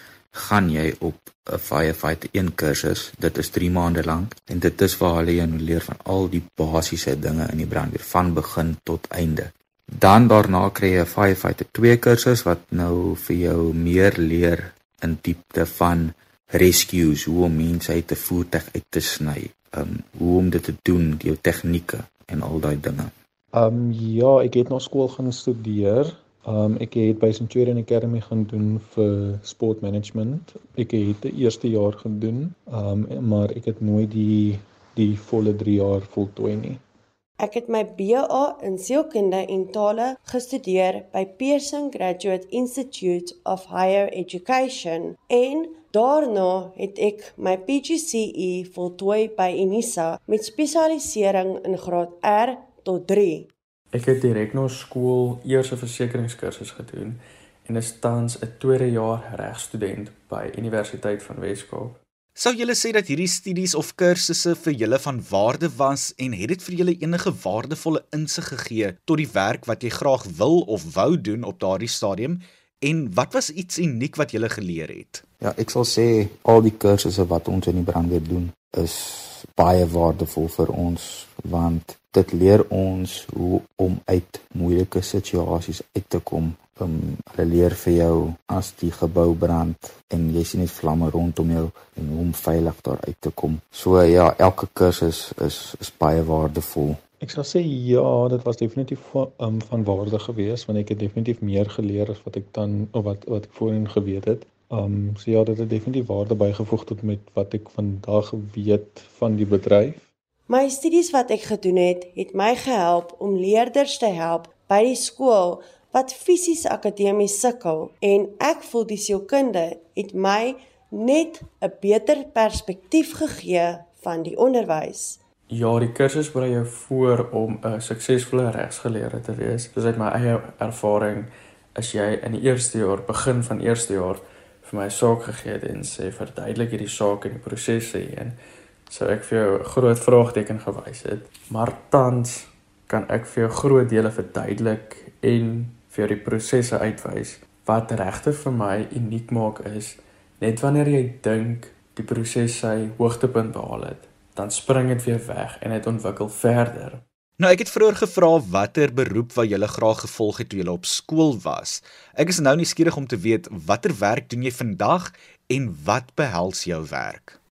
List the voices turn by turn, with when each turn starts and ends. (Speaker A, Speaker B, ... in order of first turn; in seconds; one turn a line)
Speaker A: 0.3-23.1
Speaker B: 23.5-36.8
Speaker C: 37.4-53.5
Speaker D: 53.9-62.0
Speaker E: 62.4-75.2
Speaker A: 75.4-97.0
Speaker B: 97.2-110.1
Speaker C: 110.5-125.2
Speaker D: 125.5-138.3
Speaker D: 138.9-157.0
Speaker E: 157.4-167.4